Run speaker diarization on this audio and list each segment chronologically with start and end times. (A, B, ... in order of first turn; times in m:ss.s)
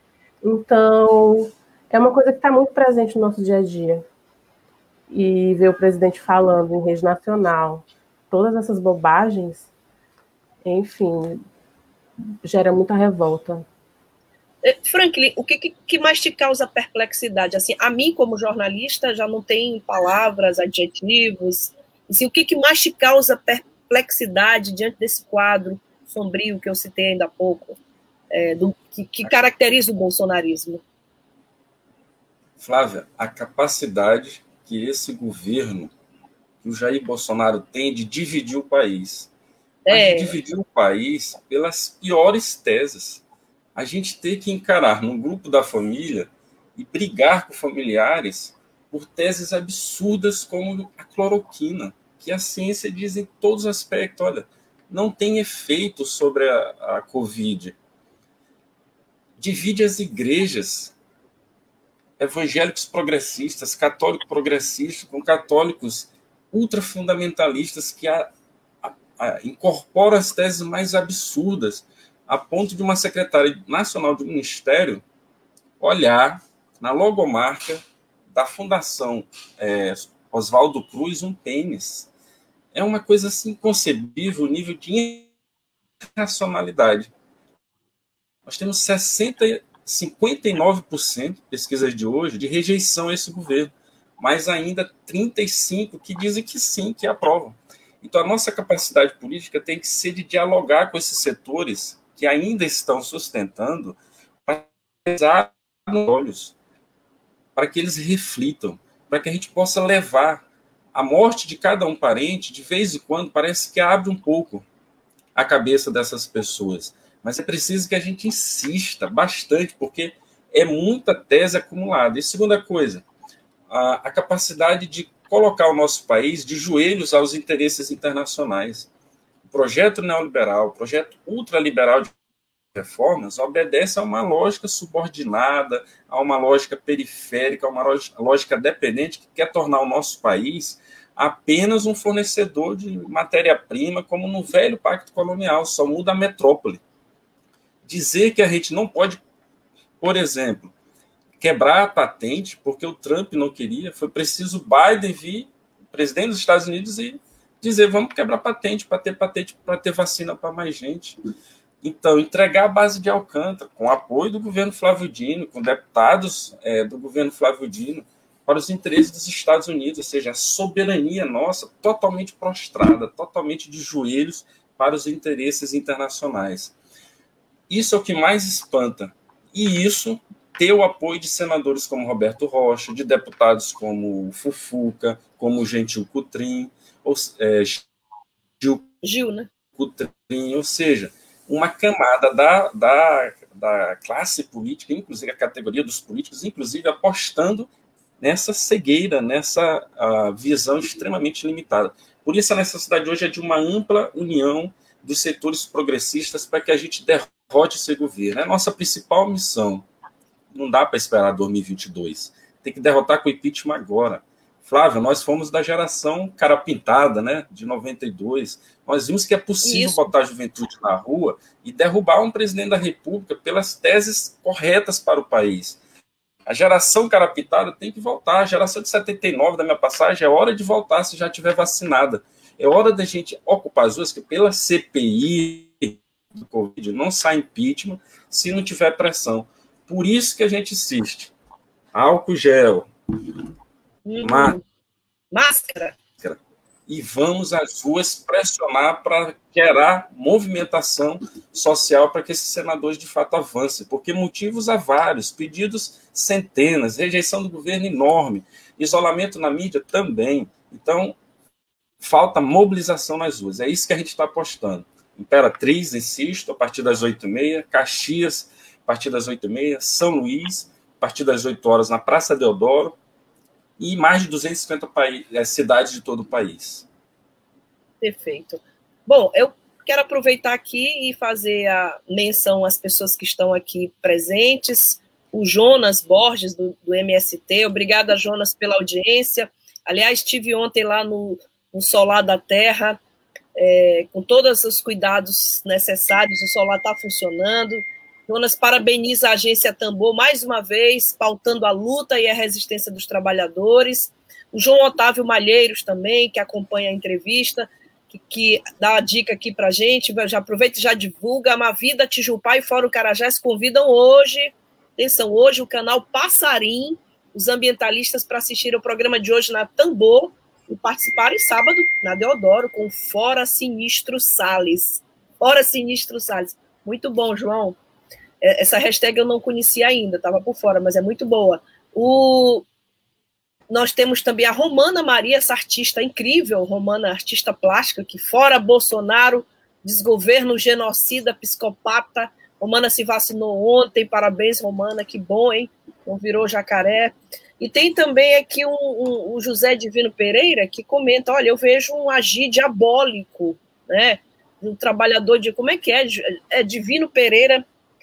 0:00.4-0:04.0 A
0:05.1-0:09.7 A
0:10.6-0:11.4 A
0:12.4-0:13.7 A
0:14.6-0:27.8 B
0:28.3-0:30.8 B
0:32.6-0:35.9 C
0:36.6-0:39.3 C
0:39.9-0:40.3 B
0:39.9-0:43.2 C
0:43.8-0:57.8 C
0:59.4-1:00.9 C
1:02.2-1:08.3 C
1:08.8-1:15.0 C
1:15.8-1:22.1 C
1:22.7-1:25.3 C
1:26.2-1:27.1 C
1:28.5-1:46.6 C
1:47.6-1:54.6 C
1:55.4-2:03.0 C
2:03.7-2:08.9 C
2:09.5-2:12.1 C
2:12.7-2:26.8 C
2:27.9-2:29.2 C
2:30.0-2:30.7 C
2:31.4-2:41.2 C
2:41.8-2:56.7 C
2:57.7-3:07.8 C
3:08.6-3:08.8 C
3:09.0-3:09.5 B
3:09.8-3:17.7 C
3:18.2-3:29.9 C
3:30.5-3:45.8 C
3:39.6-3:40.1 B
3:46.5-4:01.3 C
4:01.9-4:02.9 C
4:04.1-4:04.6 B
4:04.2-4:04.6 C
4:05.3-4:06.0 B
4:06.2-4:21.2 C
4:22.0-4:33.0 C
4:33.8-4:36.9 C
4:38.0-4:53.0 B
4:53.6-5:27.8 B
5:28.4-5:32.7 B
5:33.7-5:57.6 B